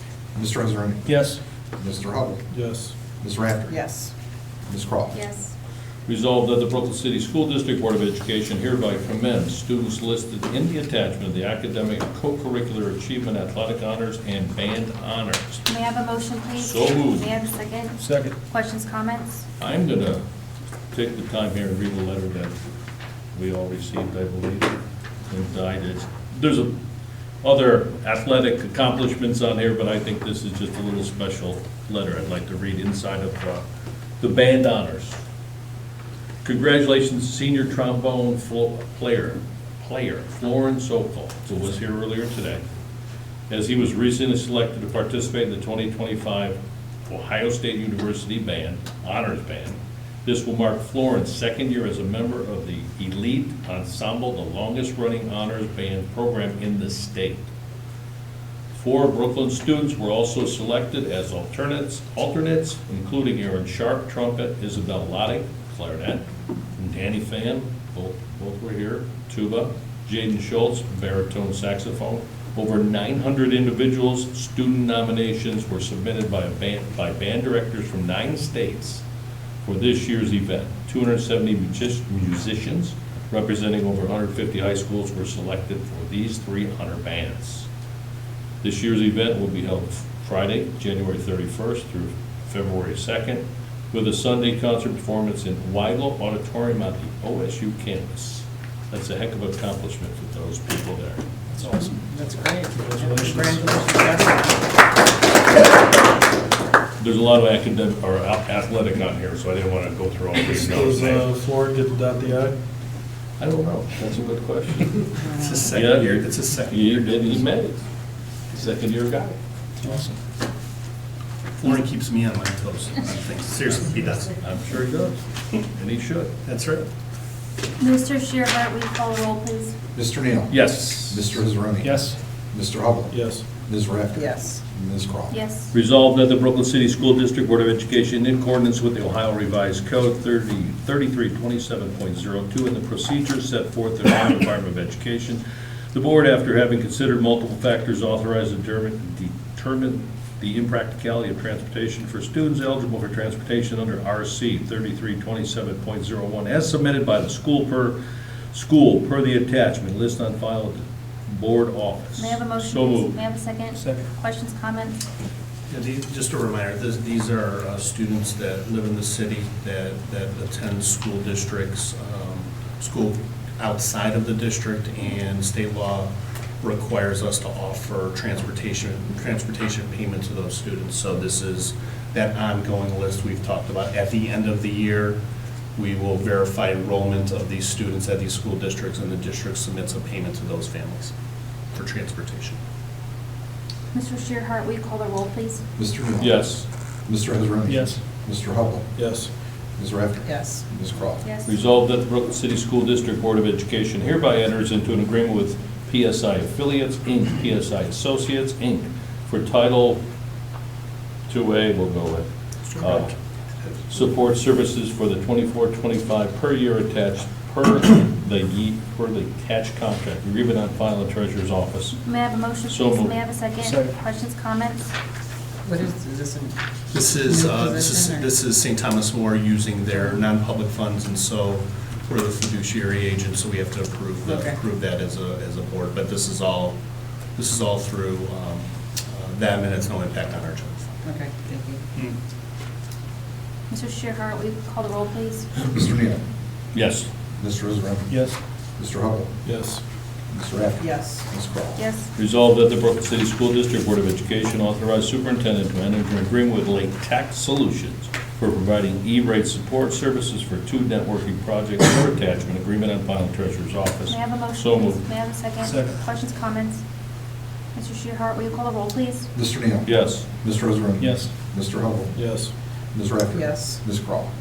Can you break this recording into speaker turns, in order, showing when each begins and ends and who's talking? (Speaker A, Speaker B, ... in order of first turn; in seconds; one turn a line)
Speaker A: 0.3-1.1
Speaker B: 1.1-1.4
Speaker A: 1.8-2.4
Speaker B: 2.5-2.9
Speaker A: 3.2-3.8
Speaker C: 3.7-4.1
Speaker A: 4.7-5.2
Speaker D: 5.1-5.5
Speaker E: 6.0-15.6
Speaker D: 15.7-19.4
Speaker E: 16.6-17.3
Speaker B: 18.0-18.3
Speaker E: 19.6-20.2
Speaker E: 20.9-22.6
Speaker E: 23.3-24.8
Speaker E: 25.3-26.7
Speaker E: 27.4-33.6
Speaker E: 34.2-35.2
Speaker E: 36.4-42.6
Speaker E: 43.5-57.5
Speaker E: 58.7-66.2
Speaker E: 66.8-79.0
Speaker E: 79.6-87.7
Speaker E: 88.6-101.2
Speaker B: 101.6-101.9
Speaker C: 101.9-104.7
Speaker B: 102.7-104.2
Speaker E: 107.0-111.2
Speaker B: 110.5-112.5
Speaker E: 113.4-115.1
Speaker C: 115.2-115.6
Speaker F: 115.2-117.5
Speaker E: 115.7-117.8
Speaker E: 118.5-119.4
Speaker B: 119.8-120.1
Speaker F: 121.5-124.4
Speaker E: 124.4-126.3
Speaker F: 126.4-126.8
Speaker D: 127.8-129.7
Speaker A: 129.9-135.4
Speaker E: 130.5-131.4
Speaker B: 131.8-132.1
Speaker B: 133.1-133.5
Speaker C: 134.1-134.6
Speaker D: 135.3-135.7
Speaker E: 135.7-145.4
Speaker E: 145.9-158.0
Speaker E: 158.5-163.2
Speaker D: 162.2-165.0
Speaker F: 165.7-176.1
Speaker F: 176.6-185.2
Speaker F: 185.7-191.1
Speaker F: 191.7-192.6
Speaker D: 193.9-195.6
Speaker A: 195.8-196.5
Speaker E: 196.2-196.7
Speaker A: 197.1-198.9
Speaker B: 197.7-198.0
Speaker B: 199.0-199.3
Speaker A: 199.8-201.2
Speaker C: 200.2-200.6
Speaker D: 201.2-201.5
Speaker E: 201.4-210.0
Speaker E: 211.3-212.3
Speaker E: 212.8-213.1
Speaker E: 213.9-222.0
Speaker D: 222.0-224.9
Speaker E: 222.7-223.2
Speaker C: 225.7-226.6
Speaker F: 226.9-236.8
Speaker C: 227.1-228.3
Speaker C: 234.2-234.6
Speaker F: 237.3-241.0
Speaker C: 241.0-241.8
Speaker D: 243.7-245.5
Speaker A: 245.6-246.2
Speaker E: 246.7-247.1
Speaker A: 247.4-249.3
Speaker B: 248.1-248.4
Speaker B: 249.4-249.8
Speaker A: 250.3-251.8
Speaker C: 250.8-251.2
Speaker D: 251.8-252.1
Speaker E: 252.2-265.0
Speaker D: 264.1-266.8
Speaker B: 265.6-265.9
Speaker D: 267.7-269.3
Speaker A: 269.3-272.2
Speaker E: 269.9-270.2
Speaker B: 271.0-271.3
Speaker B: 272.1-272.5
Speaker A: 272.9-274.3
Speaker C: 273.3-273.8